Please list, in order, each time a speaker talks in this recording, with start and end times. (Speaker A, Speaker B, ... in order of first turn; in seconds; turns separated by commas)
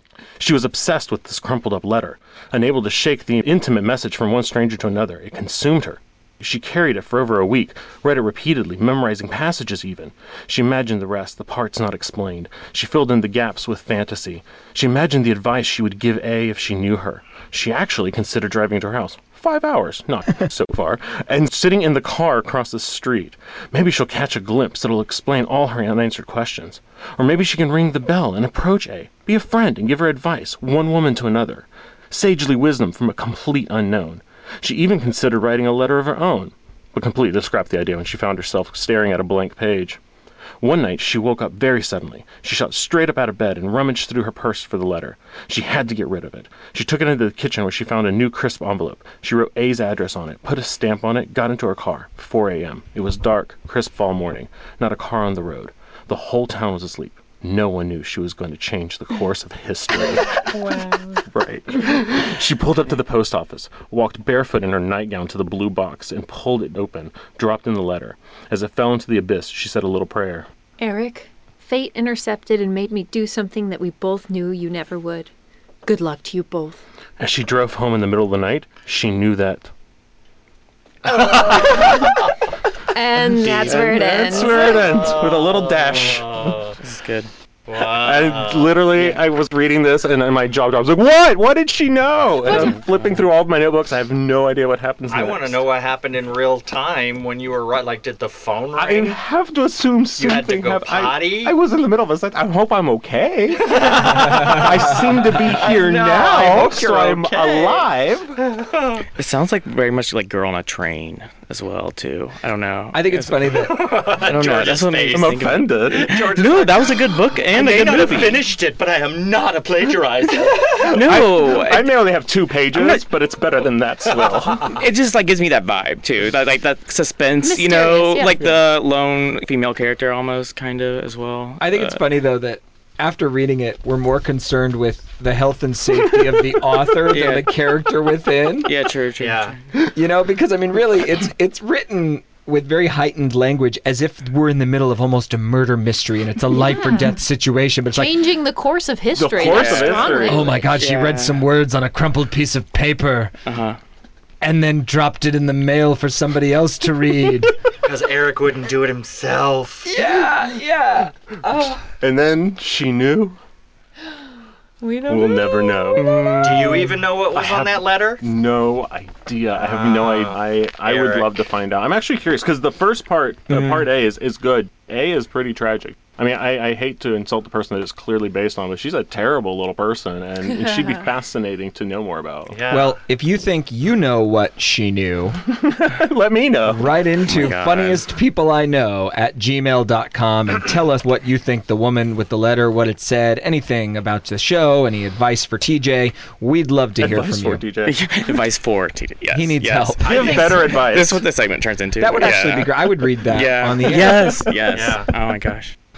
Speaker A: 0.4-40.0, Speaker A: 40.6-60.6, Speaker B: 60.5-61.2, Speaker A: 61.3-70.5, Speaker B: 70.8-75.3, Speaker B: 75.9-76.8, Speaker A: 77.2-79.7, Speaker C: 81.1-81.8, Speaker A: 81.1-82.3, Speaker B: 81.3-82.0, Speaker B: 82.9-84.9, Speaker A: 83.3-86.7, Speaker C: 84.5-86.8, Speaker D: 86.8-87.3, Speaker C: 87.7-89.1, Speaker A: 87.8-95.6, Speaker C: 95.1-99.2, Speaker A: 98.8-108.4, Speaker C: 100.2-101.5, Speaker C: 103.7-107.9, Speaker C: 108.4-109.1, Speaker D: 109.2-118.5, Speaker E: 112.9-113.9, Speaker C: 113.5-120.9, Speaker A: 115.1-116.2, Speaker A: 120.8-124.8, Speaker D: 120.8-122.0, Speaker D: 122.7-123.0, Speaker D: 124.6-132.0, Speaker B: 127.4-128.4, Speaker E: 131.6-138.7, Speaker D: 137.1-137.5, Speaker D: 138.7-139.6, Speaker C: 139.2-139.6, Speaker E: 139.9-148.2, Speaker B: 146.5-147.2, Speaker B: 147.9-150.7, Speaker A: 149.1-150.5, Speaker D: 149.4-151.4, Speaker E: 150.2-153.3, Speaker D: 153.5-153.8, Speaker E: 154.4-157.6, Speaker C: 157.8-159.9, Speaker E: 159.8-161.8, Speaker A: 162.0-163.4, Speaker B: 164.8-166.4, Speaker A: 165.1-166.1, Speaker D: 166.0-167.0, Speaker C: 166.4-168.2, Speaker A: 167.3-182.6, Speaker C: 169.6-171.3, Speaker C: 182.5-183.0, Speaker E: 182.7-185.4, Speaker A: 185.5-186.9, Speaker E: 186.7-197.6, Speaker D: 187.3-188.0, Speaker A: 197.0-198.1, Speaker D: 197.8-205.8, Speaker E: 199.3-200.1, Speaker A: 200.0-201.2, Speaker C: 200.1-200.7, Speaker E: 202.0-204.5, Speaker C: 204.7-205.1